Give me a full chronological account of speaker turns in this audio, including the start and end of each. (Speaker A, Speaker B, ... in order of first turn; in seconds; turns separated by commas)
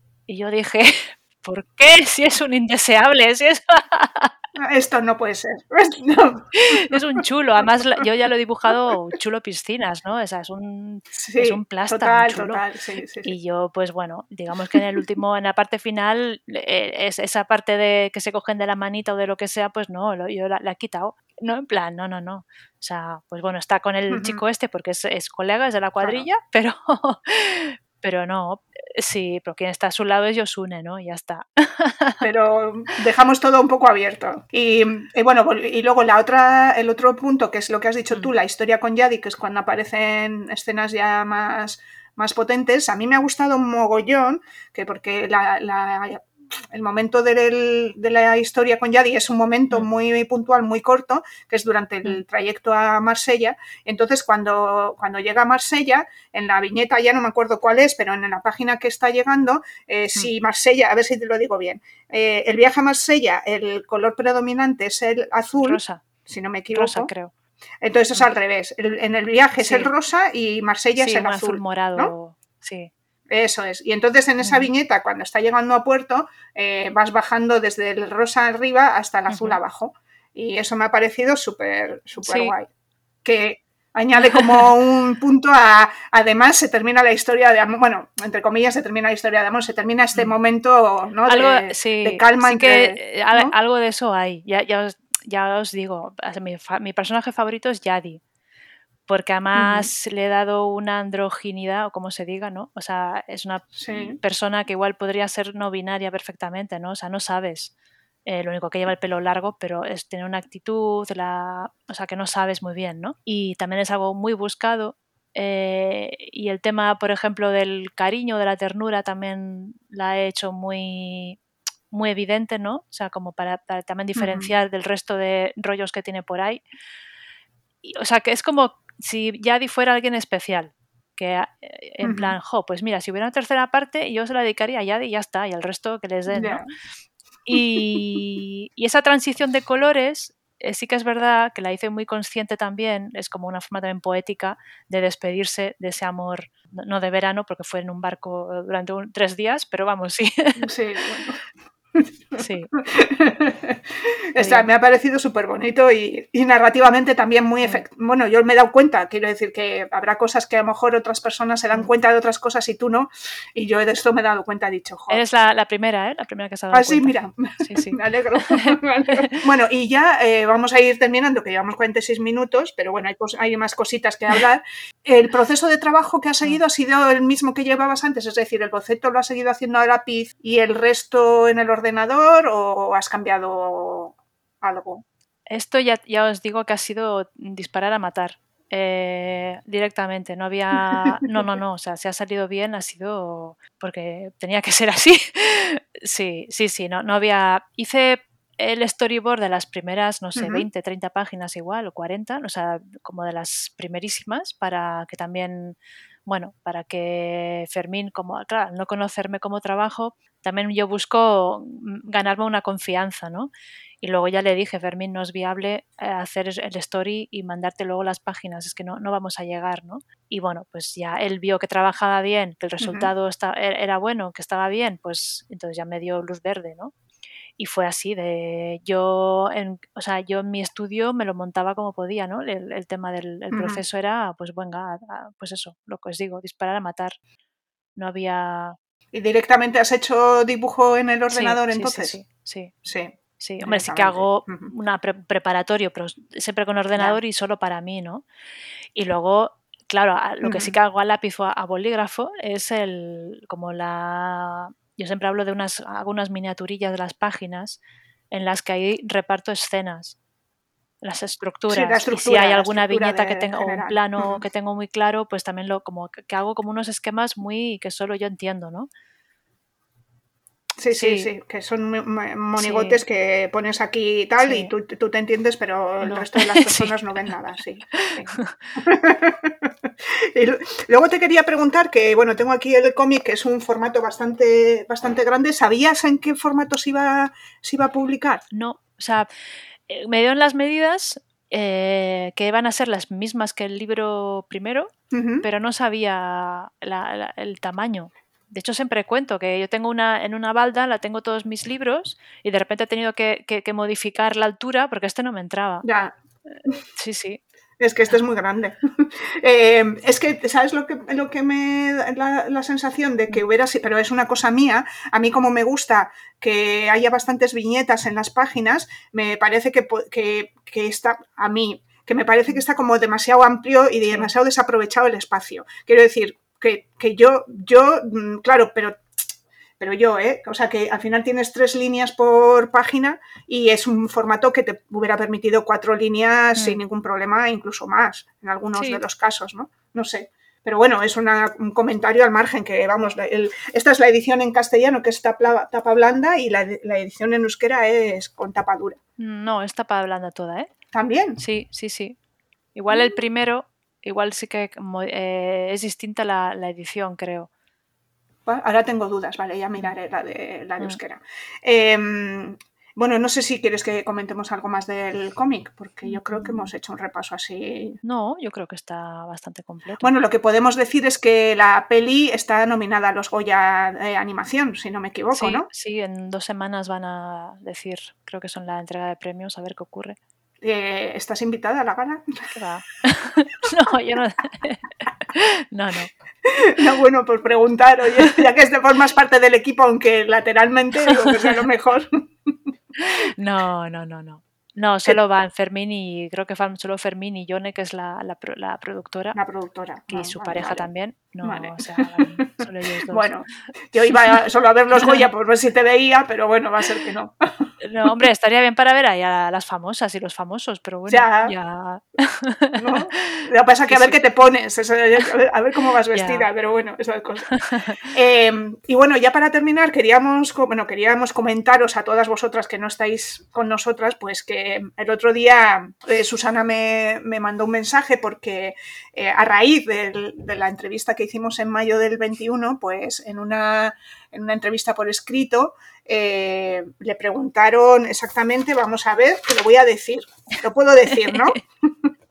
Speaker A: 0.3-4.3, Speaker B: 4.6-7.2, Speaker A: 6.6-12.6, Speaker B: 11.2-13.3, Speaker A: 13.2-32.2, Speaker B: 24.1-24.4, Speaker B: 26.0-26.3, Speaker B: 32.2-67.1, Speaker A: 65.6-66.0, Speaker A: 66.7-67.3, Speaker B: 67.8-72.1, Speaker A: 69.6-69.9, Speaker A: 71.0-72.9, Speaker B: 73.3-82.7, Speaker A: 74.4-74.7, Speaker A: 79.3-79.6, Speaker A: 82.2-82.5, Speaker B: 83.2-93.5, Speaker A: 84.2-84.7, Speaker A: 91.3-98.2, Speaker A: 99.1-107.7, Speaker B: 99.5-99.9, Speaker B: 103.8-104.2, Speaker A: 108.3-121.4, Speaker A: 121.9-126.6, Speaker B: 124.2-124.5, Speaker A: 127.8-136.6, Speaker B: 132.0-132.3, Speaker B: 136.3-136.7, Speaker A: 137.5-150.7, Speaker B: 137.6-137.8, Speaker B: 150.6-151.4, Speaker B: 151.9-165.2, Speaker A: 152.4-152.7, Speaker A: 154.4-154.7, Speaker A: 165.1-169.3, Speaker B: 166.7-185.0, Speaker A: 185.5-213.5, Speaker B: 200.4-200.7, Speaker A: 214.0-226.9, Speaker B: 222.8-223.1, Speaker A: 227.6-237.2, Speaker B: 233.5-233.8, Speaker A: 238.0-238.8, Speaker B: 239.1-242.2, Speaker A: 241.3-242.7, Speaker B: 242.8-244.7, Speaker A: 243.4-248.2, Speaker A: 248.9-260.2, Speaker B: 250.4-250.8, Speaker A: 261.0-268.9, Speaker B: 261.7-264.4, Speaker B: 270.8-288.4, Speaker A: 270.9-271.3, Speaker A: 272.6-273.0, Speaker A: 274.4-274.7, Speaker A: 276.0-277.0, Speaker A: 278.0-278.6, Speaker A: 288.5-289.3, Speaker A: 289.9-305.9, Speaker B: 295.1-295.5, Speaker B: 305.8-306.8, Speaker A: 306.5-307.4, Speaker B: 307.8-329.0, Speaker B: 329.8-349.0, Speaker A: 338.8-339.0, Speaker A: 349.2-350.7, Speaker B: 350.9-351.4, Speaker A: 351.4-352.2, Speaker A: 352.8-357.5, Speaker B: 352.9-353.2, Speaker B: 358.5-368.0, Speaker A: 366.0-366.7, Speaker A: 368.0-370.1, Speaker B: 370.0-375.7, Speaker A: 375.3-380.2, Speaker B: 380.6-382.6, Speaker A: 382.5-386.1, Speaker B: 386.4-392.5, Speaker A: 391.0-391.5, Speaker A: 393.0-399.4, Speaker B: 399.4-400.9, Speaker A: 400.1-403.3, Speaker B: 401.4-407.7, Speaker A: 404.9-405.3, Speaker A: 407.8-414.2, Speaker B: 411.1-411.6, Speaker B: 412.8-417.5, Speaker A: 416.1-416.5, Speaker A: 417.5-418.1, Speaker B: 418.1-442.1, Speaker A: 441.1-441.6